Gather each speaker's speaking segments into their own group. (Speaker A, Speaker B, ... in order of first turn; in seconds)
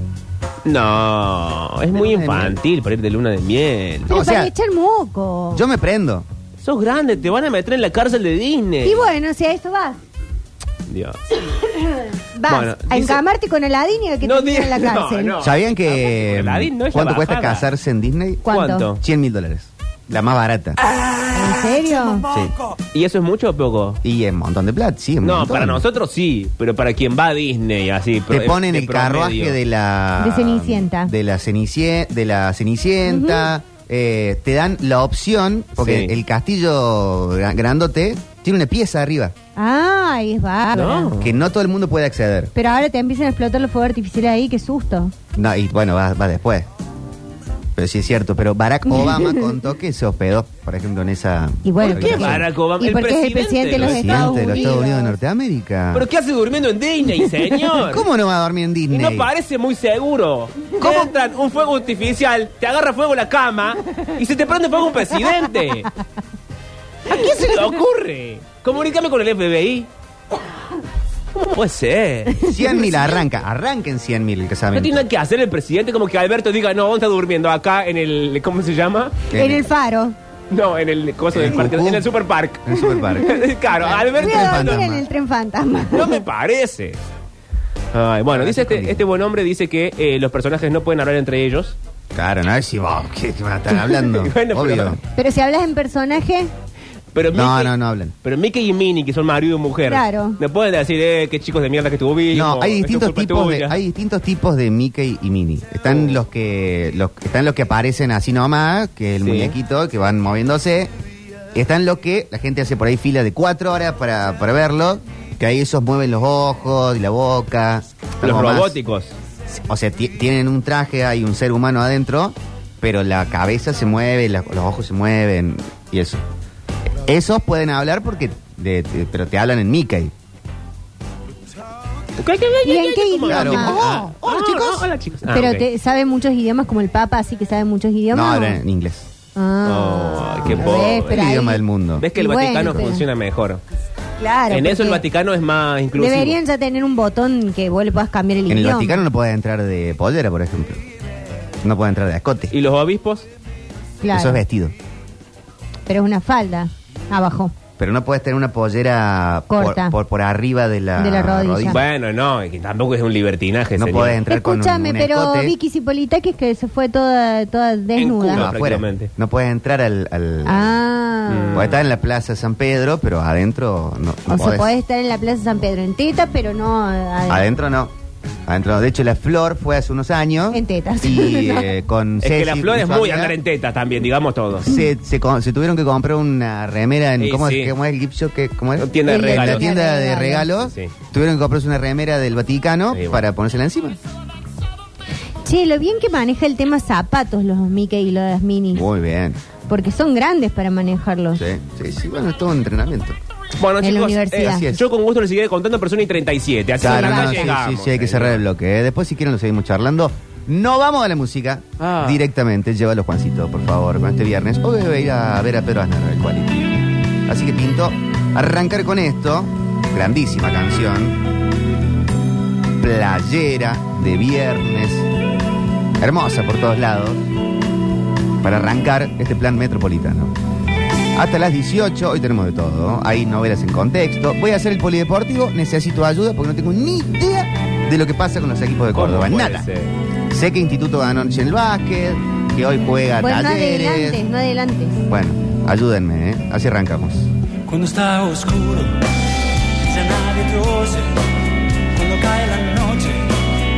Speaker A: 0.6-4.1, 6.6-9.0, 10.9-11.2, 12.5-13.2, 14.2-17.7, 18.5-19.0, 22.9-24.0, 25.2-29.6, 35.8-36.1, 40.7-41.3, 51.8-54.5, 55.9-58.0, 58.9-65.9, 67.1-69.9, 71.3-72.4, 74.7-79.2, 80.5-84.9, 85.9-87.0, 87.9-91.8, 93.7-95.0, 97.1-103.8, 105.9-106.2, 109.2-109.5, 118.2-119.1, 132.2-135.7, 139.6-141.2, 142.0-143.6, 144.5-146.4, 152.5-153.3, 161.7-164.2, 167.9-169.1, 171.3-171.8, 182.2-184.7, 187.2-187.7, 188.8-189.7, 190.6-190.9, 192.9-193.2, 203.6-208.4, 211.8-212.2, 238.9-239.9
Speaker B: 1.9-2.6, 4.1-4.5, 5.5-6.3, 15.4-20.8, 24.0-25.8, 28.3-39.3, 41.2-42.5, 45.3-46.7, 47.8-52.5, 53.8-56.0, 57.8-59.3, 72.4-75.0, 79.3-79.7, 81.3-82.1, 82.6-85.0, 88.3-89.0, 92.1-95.0, 97.3-98.1, 102.3-110.9, 111.5-118.8, 119.5-126.2, 127.0-130.1, 133.3-134.9, 138.1-139.1, 140.5-142.1, 148.5-150.8, 151.6-152.5, 154.1-154.7, 157.8-161.8, 163.8-165.5, 168.3-170.8, 171.5-174.7, 177.3-177.9, 178.5-183.4, 184.6-194.0, 198.7-199.4, 201.3-203.2, 204.5-204.8, 206.8-221.3, 222.8-225.1, 226.0-227.3, 228.4-230.3, 231.1-239.7, 240.3-244.2, 245.1-247.3
Speaker C: 4.1-5.6, 8.8-10.0, 11.7-15.4, 18.4-18.9, 21.3-22.2, 30.2-31.1, 33.1-33.5, 39.5-41.1, 42.5-45.1, 48.9-49.4, 51.6-55.1, 60.8-61.1, 67.1-67.6, 72.4-72.9, 79.3-80.2, 84.2-86.2, 95.2-96.5, 99.9-100.4, 132.6-133.9, 135.3-138.6, 139.3-141.6, 142.1-143.0, 144.2-145.0, 145.9-149.0, 154.0-154.4, 155.9-157.5, 159.5-160.0, 161.0-161.8, 164.3-168.5, 170.4-171.7, 174.3-177.5, 180.5-181.7, 189.0-190.5, 195.4-198.9, 199.7-201.4, 203.8-204.7, 206.8-207.4, 243.2-245.0
Speaker D: 247.7-249.1, 249.8-253.5